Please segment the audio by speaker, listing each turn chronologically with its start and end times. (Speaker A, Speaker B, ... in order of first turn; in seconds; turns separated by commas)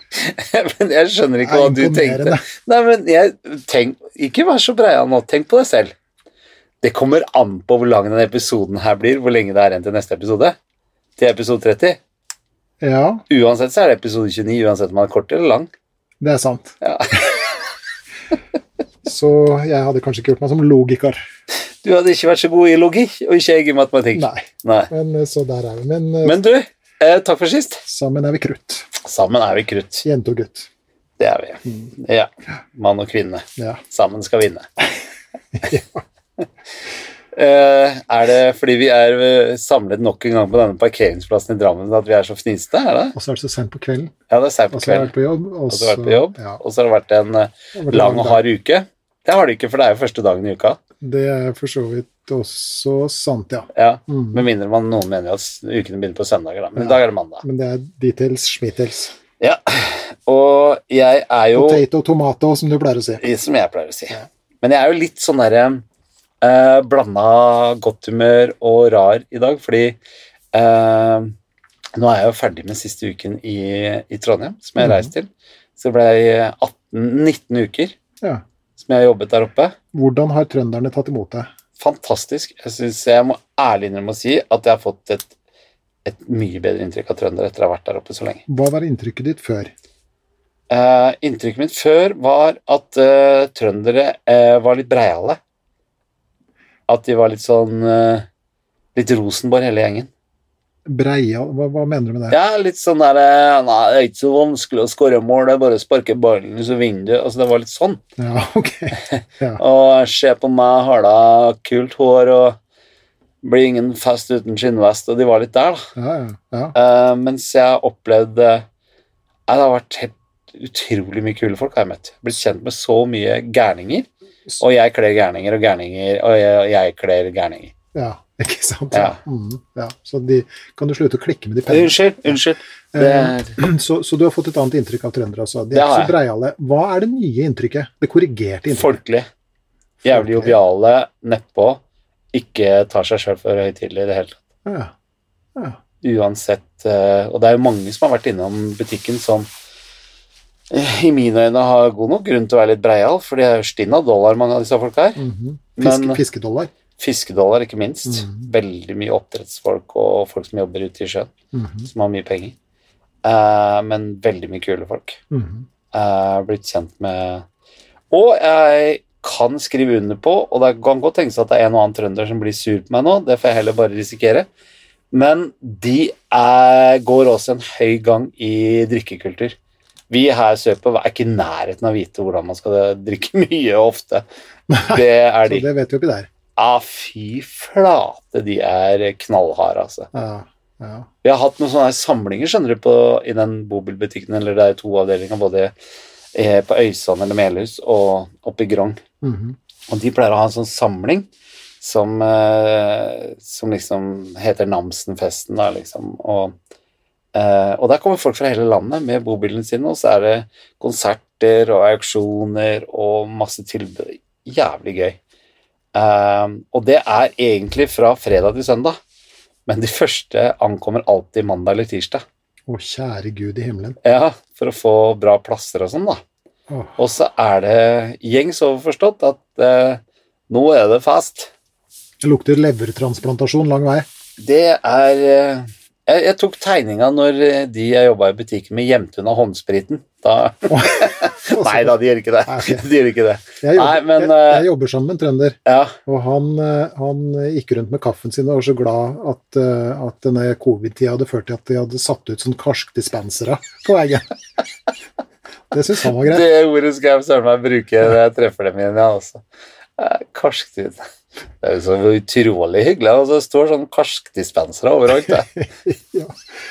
Speaker A: 0.1-5.9, Speaker B: 1.4-2.4, Speaker A: 6.8-10.6, Speaker A: 11.2-12.0, Speaker B: 12.8-13.2, Speaker A: 13.3-15.7, Speaker B: 16.2-16.7, Speaker A: 16.8-17.3, Speaker B: 19.0-21.2, Speaker A: 21.8-24.9, Speaker B: 24.1-26.4, Speaker A: 26.2-27.8, Speaker B: 27.9-28.9, Speaker A: 29.0-30.0, Speaker B: 30.0-30.7, Speaker A: 31.2-34.7, Speaker B: 35.5-36.0, Speaker A: 37.3-43.1, Speaker B: 43.1-44.1, Speaker A: 44.3-45.1, Speaker B: 44.7-46.6, Speaker A: 45.7-50.8, Speaker B: 47.7-48.4, Speaker B: 51.0-54.4, Speaker A: 53.7-57.4, Speaker B: 56.8-59.1, Speaker A: 59.4-61.8, Speaker B: 61.5-63.2, Speaker A: 63.2-65.8, Speaker A: 66.4-70.0, Speaker A: 70.5-71.3, Speaker A: 72.0-77.9, Speaker B: 74.8-75.1, Speaker A: 78.8-79.8, Speaker B: 79.9-81.5, Speaker A: 81.8-85.3, Speaker A: 86.0-88.4, Speaker B: 88.5-89.7, Speaker A: 90.7-95.4, Speaker A: 96.9-98.2, Speaker A: 98.9-100.1, Speaker B: 100.8-102.4, Speaker A: 102.3-108.0, Speaker B: 108.2-109.6, Speaker A: 109.1-112.6, Speaker A: 113.4-115.9, Speaker B: 116.0-116.7, Speaker A: 116.7-118.7, Speaker A: 119.5-124.1, Speaker A: 124.6-127.7, Speaker B: 127.9-132.4, Speaker A: 128.9-129.2, Speaker A: 131.7-133.6, Speaker B: 132.9-138.9, Speaker A: 135.7-136.2, Speaker A: 138.7-139.3, Speaker A: 140.0-141.8, Speaker B: 140.1-140.6, Speaker A: 142.3-144.4, Speaker B: 144.6-144.9, Speaker A: 146.0-149.5, Speaker A: 150.7-155.2, Speaker B: 155.2-156.7, Speaker A: 155.8-156.2, Speaker A: 157.0-161.3, Speaker B: 158.1-158.3, Speaker B: 161.5-161.9, Speaker A: 161.8-162.5, Speaker A: 163.2-165.2, Speaker B: 165.3-165.7, Speaker A: 165.9-167.4, Speaker A: 168.1-174.5, Speaker A: 175.1-179.6, Speaker A: 180.1-184.2, Speaker B: 184.7-186.3, Speaker A: 184.8-185.7, Speaker A: 186.6-190.1, Speaker B: 190.1-191.1, Speaker A: 191.2-195.7, Speaker A: 196.3-199.0, Speaker B: 199.2-199.6, Speaker A: 199.9-201.3, Speaker A: 201.8-206.5, Speaker A: 207.3-215.2, Speaker A: 215.9-219.0, Speaker A: 219.7-222.2, Speaker B: 222.7-224.0, Speaker A: 224.0-226.2, Speaker B: 226.7-227.0, Speaker A: 227.0-231.5, Speaker B: 232.2-234.1, Speaker A: 234.4-244.6, Speaker B: 240.7-242.8, Speaker B: 243.6-254.3, Speaker A: 245.7-245.9, Speaker B: 255.7-256.4, Speaker A: 256.1-259.4, Speaker A: 260.0-261.0, Speaker A: 261.6-265.5, Speaker B: 265.2-266.4